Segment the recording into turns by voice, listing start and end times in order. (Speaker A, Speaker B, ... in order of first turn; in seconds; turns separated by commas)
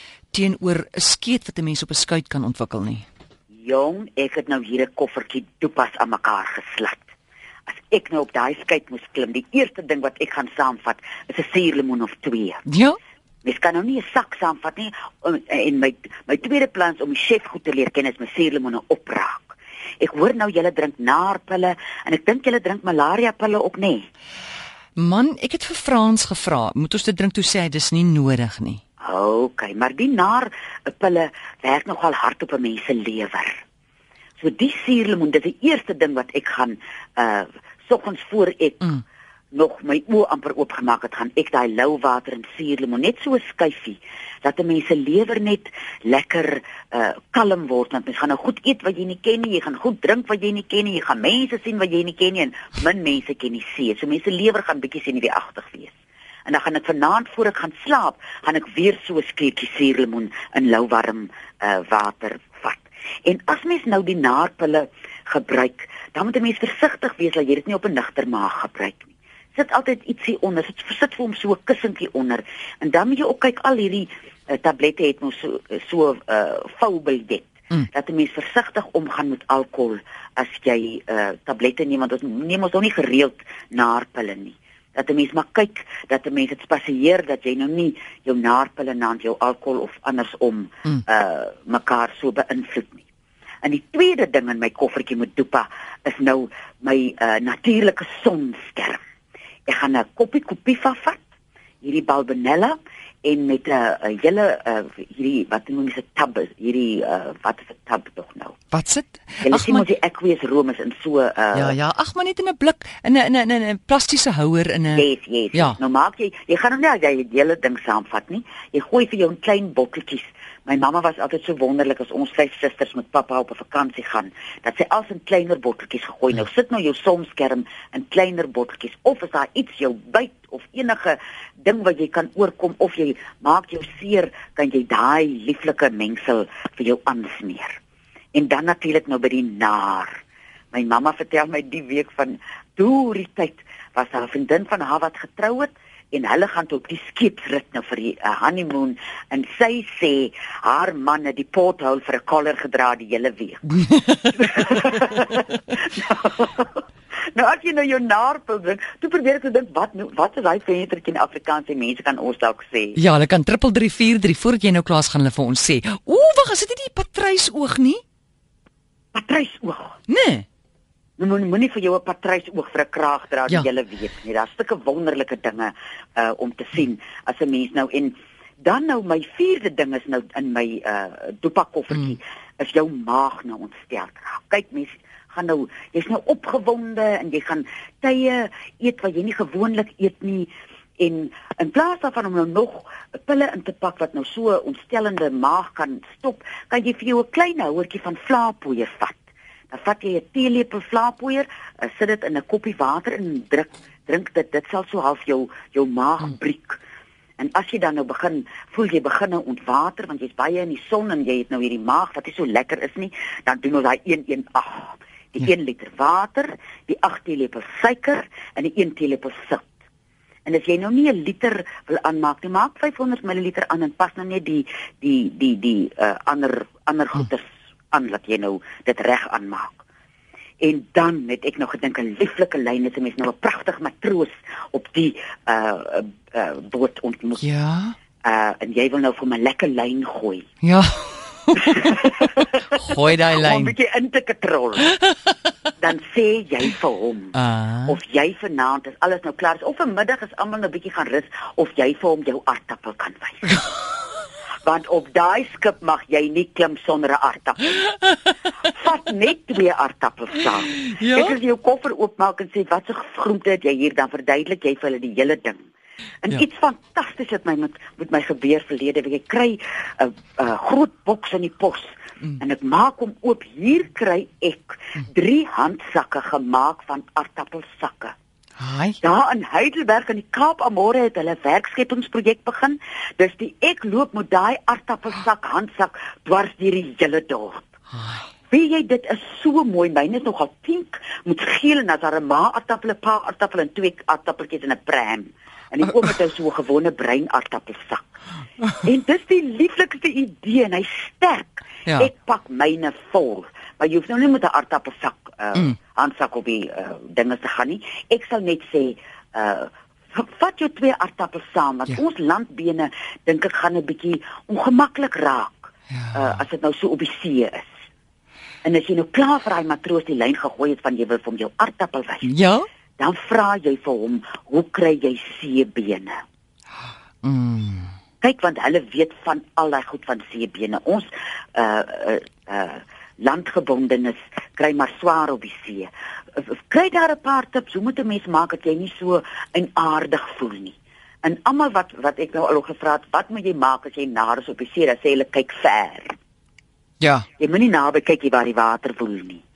Speaker A: 0.3-3.1, Speaker B: 3.6-7.1, Speaker B: 7.7-12.7, Speaker A: 12.7-13.0, Speaker B: 13.4-24.1, Speaker A: 25.0-28.8, Speaker B: 29.0-33.6, Speaker B: 34.4-38.9, Speaker B: 39.5-55.9, Speaker B: 56.5-93.0, Speaker B: 93.6-99.0, Speaker B: 99.7-101.2, Speaker B: 101.8-108.6, Speaker A: 108.7-109.8, Speaker B: 109.5-111.8, Speaker A: 111.5-115.8, Speaker B: 115.0-137.8, Speaker B: 138.3-140.2, Speaker B: 140.7-153.7, Speaker A: 153.8-155.0, Speaker B: 154.3-163.0, Speaker A: 163.0-168.0, Speaker B: 169.1-170.0, Speaker A: 170.1-170.5, Speaker B: 171.2-206.8, Speaker B: 207.4-219.7, Speaker B: 220.5-229.8, Speaker B: 230.6-237.4, Speaker A: 237.4-237.9, Speaker B: 238.2-240.5, Speaker A: 240.6-241.8, Speaker B: 241.7-244.9, Speaker A: 242.7-243.8, Speaker B: 245.8-253.5, Speaker A: 247.3-248.0, Speaker B: 254.6-257.8, Speaker B: 258.7-265.6, Speaker A: 260.7-261.4, Speaker B: 266.2-278.1, Speaker A: 278.6-279.0, Speaker B: 279.0-287.7, Speaker A: 287.9-288.3, Speaker B: 288.5-298.1, Speaker B: 298.8-317.7, Speaker A: 315.9-316.3, Speaker B: 318.6-322.3, Speaker A: 322.2-322.7, Speaker B: 323.0-326.1, Speaker A: 327.2-327.9, Speaker B: 328.2-346.2, Speaker A: 347.0-347.3, Speaker B: 347.4-349.4